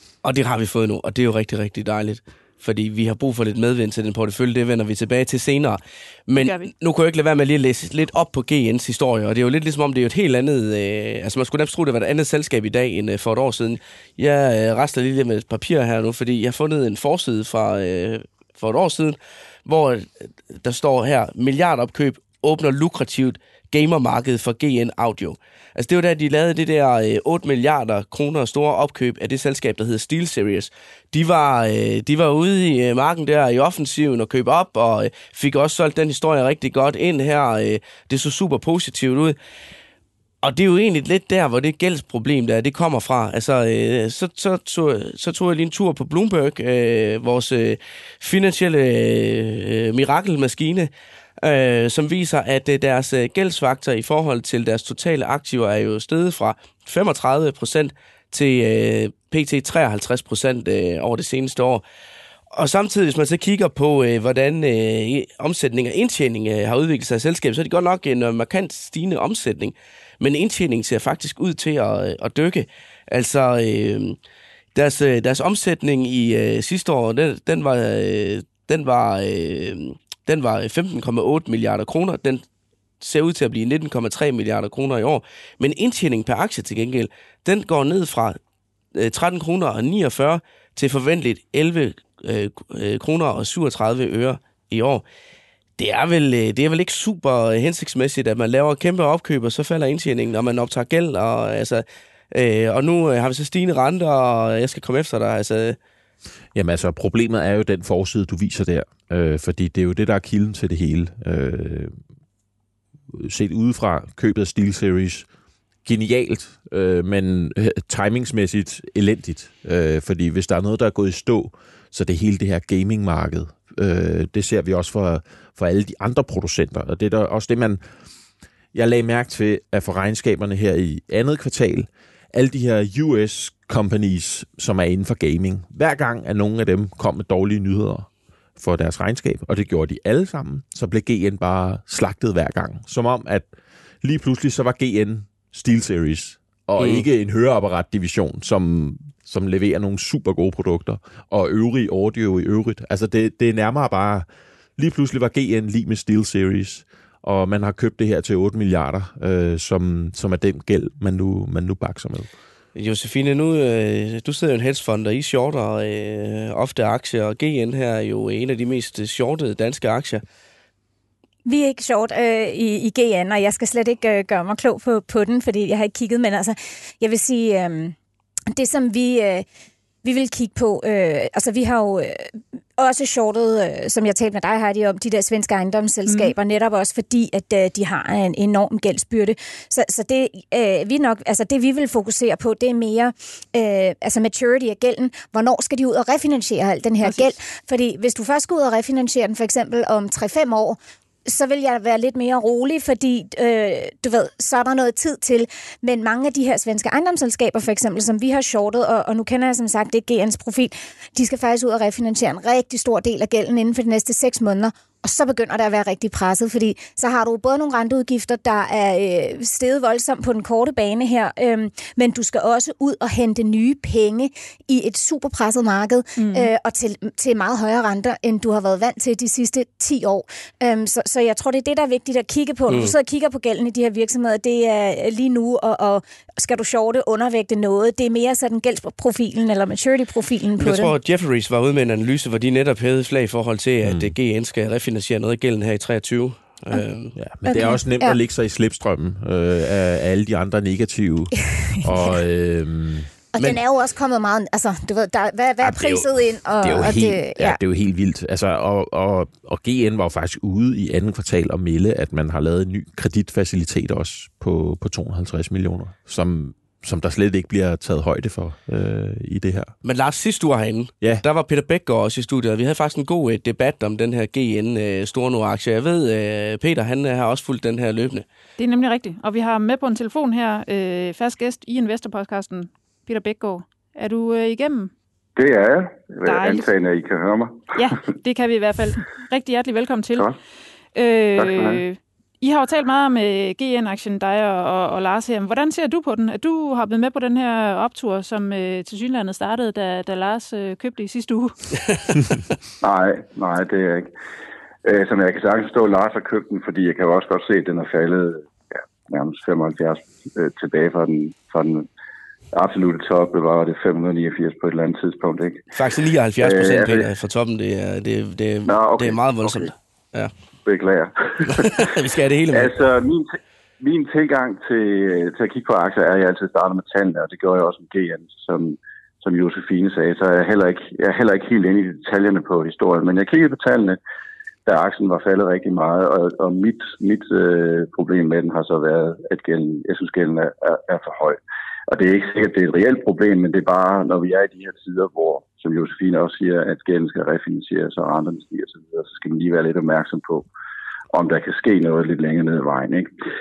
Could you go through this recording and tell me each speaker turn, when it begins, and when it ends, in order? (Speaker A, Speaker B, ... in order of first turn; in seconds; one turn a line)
Speaker A: 0.2-39.4
Speaker B: 6.4-6.7
Speaker A: 40.4-50.9
Speaker A: 51.4-61.8
Speaker A: 62.5-74.2
Speaker A: 74.7-82.4
Speaker A: 83.0-88.4
Speaker A: 88.9-95.0
Speaker A: 95.8-105.8
Speaker C: 106.5-112.0
Speaker C: 113.1-115.3
Speaker C: 115.8-127.8
Speaker C: 128.7-143.5
Speaker C: 144.0-154.2
Speaker A: 146.8-147.0
Speaker C: 154.8-162.3
Speaker A: 162.7-170.2
Speaker D: 171.4-177.9
Speaker D: 178.5-179.4
Speaker D: 180.0-240.9
Speaker B: 186.1-186.3
Speaker B: 226.2-226.5
Speaker A: 232.7-232.9
Speaker A: 240.6-247.2
Speaker C: 243.8-244.1
Speaker C: 247.2-253.1
Speaker D: 247.4-248.2
Speaker D: 251.6-251.9
Speaker D: 253.3-257.6
Speaker C: 255.6-269.7
Speaker A: 269.8-278.2
Speaker B: 278.6-284.9
Speaker E: 285.4-288.0
Speaker B: 286.2-286.7
Speaker B: 287.7-290.3
Speaker B: 290.9-301.5
Speaker E: 291.4-291.8
Speaker E: 302.8-304.1
Speaker E: 304.8-311.9
Speaker E: 312.5-315.6
Speaker A: 315.7-320.3
Speaker E: 316.4-317.1
Speaker E: 318.6-319.7
Speaker E: 320.6-321.9
Speaker A: 321.5-322.7
Speaker E: 322.5-334.0
Speaker E: 334.6-350.4
Speaker E: 351.1-353.1